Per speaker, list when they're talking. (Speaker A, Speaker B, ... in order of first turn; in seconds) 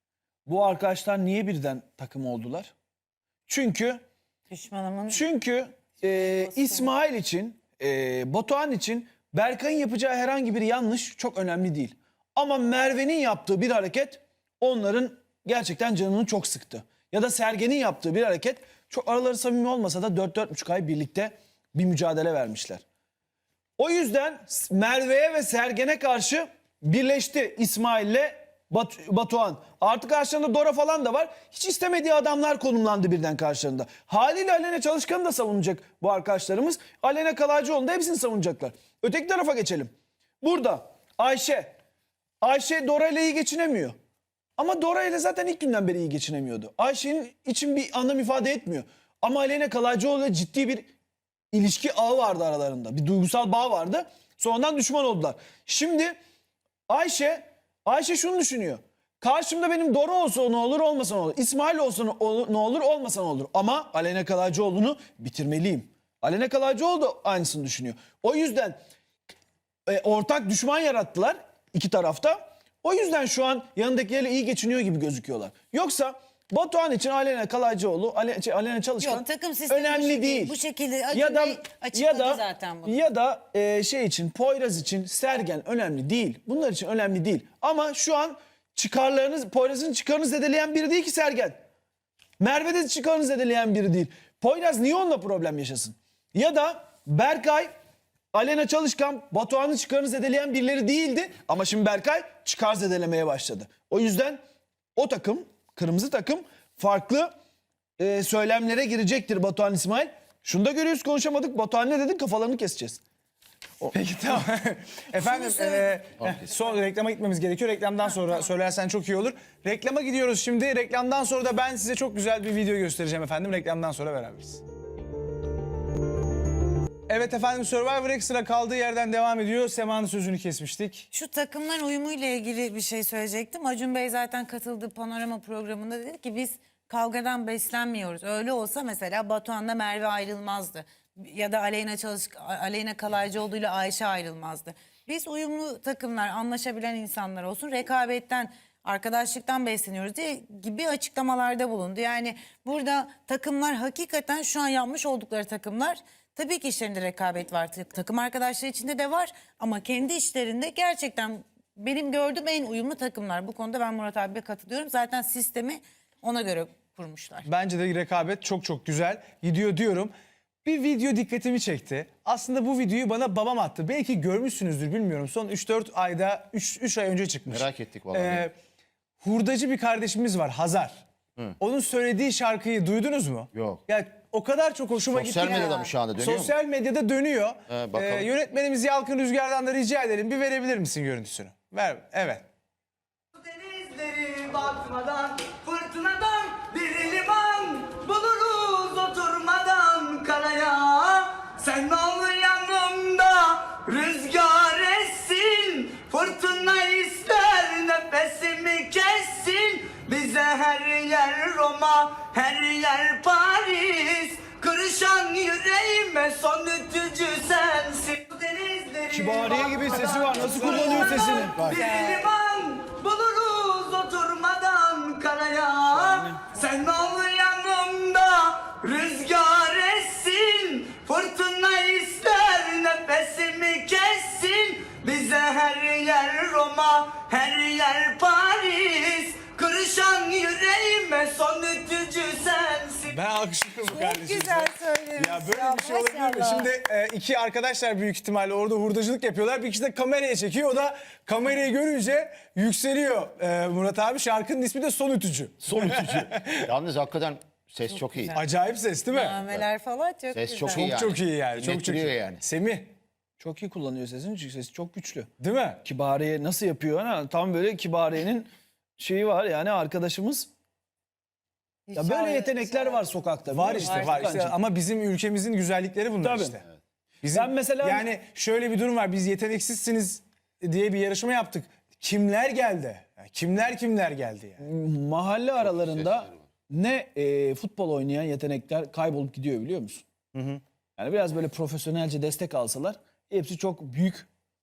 Speaker A: 0.5-2.7, 3.5-4.0, 5.1-22.8, 23.8-41.7, 42.4-44.0, 44.6-50.9, 51.5-56.1, 56.9-68.8, 69.8-80.6, 81.1-91.6, 92.4-97.7, 98.3-104.4, 105.0-107.3, 108.0-113.0, 219.1-221.6, 225.9-226.5, 263.4-265.3, 265.8-270.5, 271.9-274.6, 276.2-276.6, 277.3-278.1, 284.6-290.0, 291.0-294.3
Speaker B: 4.5-5.2, 6.3-6.9, 79.0-83.0, 115.2-115.9, 131.1-167.4, 185.4-185.9, 221.3-222.3, 243.8-246.7, 258.0-258.3, 259.1-260.8, 271.9-273.1, 273.8-274.2
Speaker C: 113.9-124.6, 127.1-131.1, 167.4-170.1, 170.6-178.5, 179.2-181.0, 181.6-192.4, 220.2-221.9, 243.1-256.6, 258.3-259.4, 260.7-262.9, 265.4-265.8, 273.5-276.6, 277.2-284.6, 290.3-290.6
Speaker D: 177.5-178.5, 183.5-183.8, 185.1-186.5, 187.7-188.3, 255.6-258.4, 260.3-262.4, 285.6-286.4
Speaker E: 193.3-243.2